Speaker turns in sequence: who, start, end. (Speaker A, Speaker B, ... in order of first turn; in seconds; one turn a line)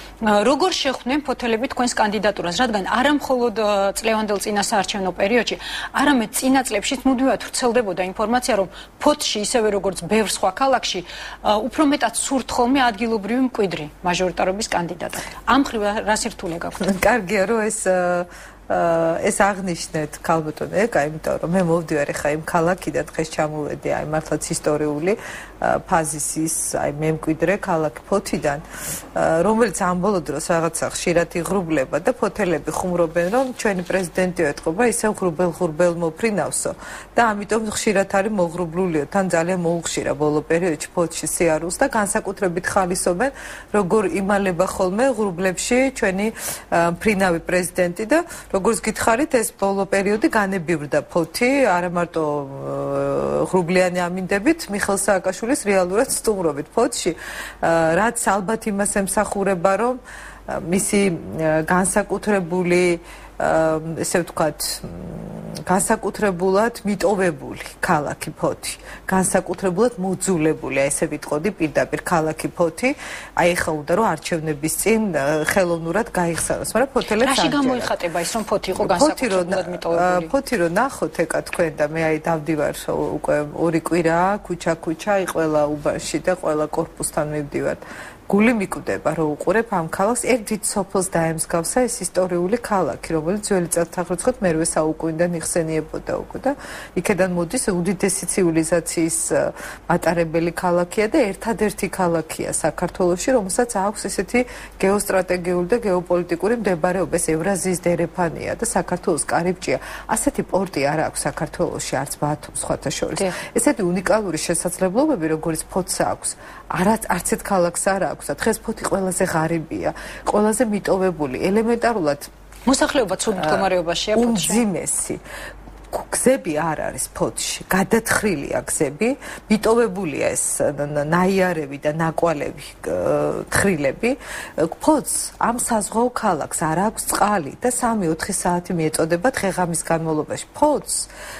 Speaker A: 0.2-16.9
Speaker B: 16.8-28.6
Speaker B: 29.1-77.9
Speaker A: 77.2-80.3
Speaker B: 78.8-122.3
Speaker A: 122.7-124.6
Speaker B: 123.3-125.2
Speaker B: 125.9-141.1